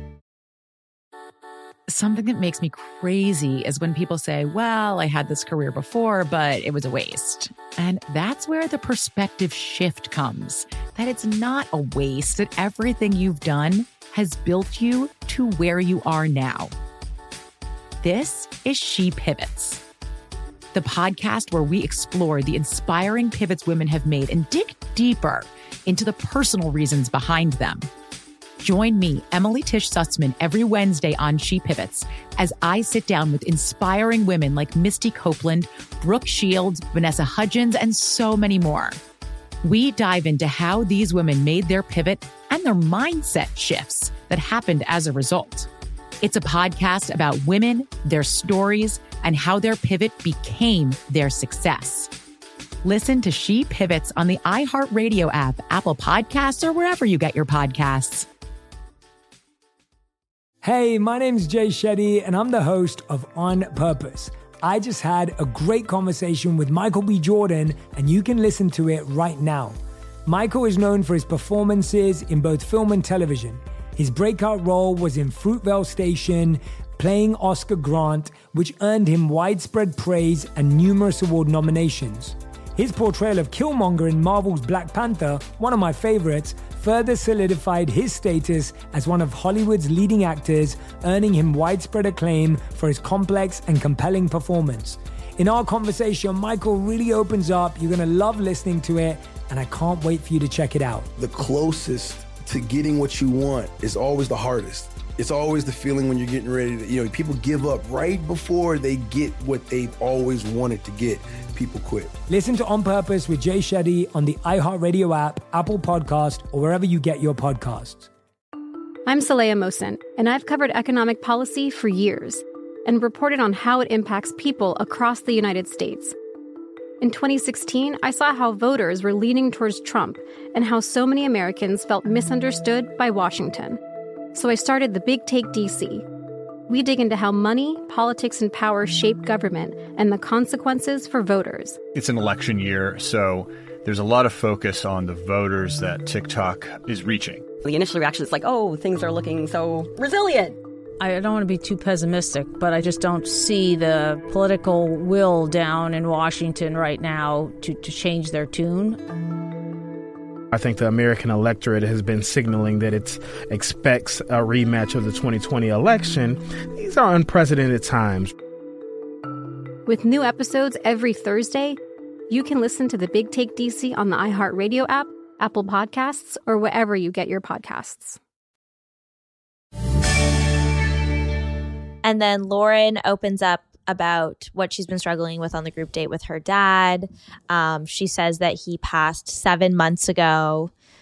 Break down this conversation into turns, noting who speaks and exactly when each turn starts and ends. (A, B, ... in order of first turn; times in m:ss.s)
0:01.9-0:16.7 A
0:18.0-0:19.8 A
0:20.7-0:27.9 A
0:28.6-0:39.0 A
0:39.6-0:45.7 A
0:46.2-0:52.1 A
0:52.8-0:58.3 A
1:00.6-1:41.1 B
1:41.2-1:52.1 C
1:52.3-1:58.1 B
1:59.0-2:06.1 D
2:07.0-2:13.8 D
2:14.3-2:16.0 D
2:16.7-2:21.8 D
2:21.9-2:27.4 E
2:27.6-2:30.6 F
2:31.0-2:39.0 G
2:40.5-2:48.3 H
2:49.8-2:58.2 D
3:02.0-3:10.7 I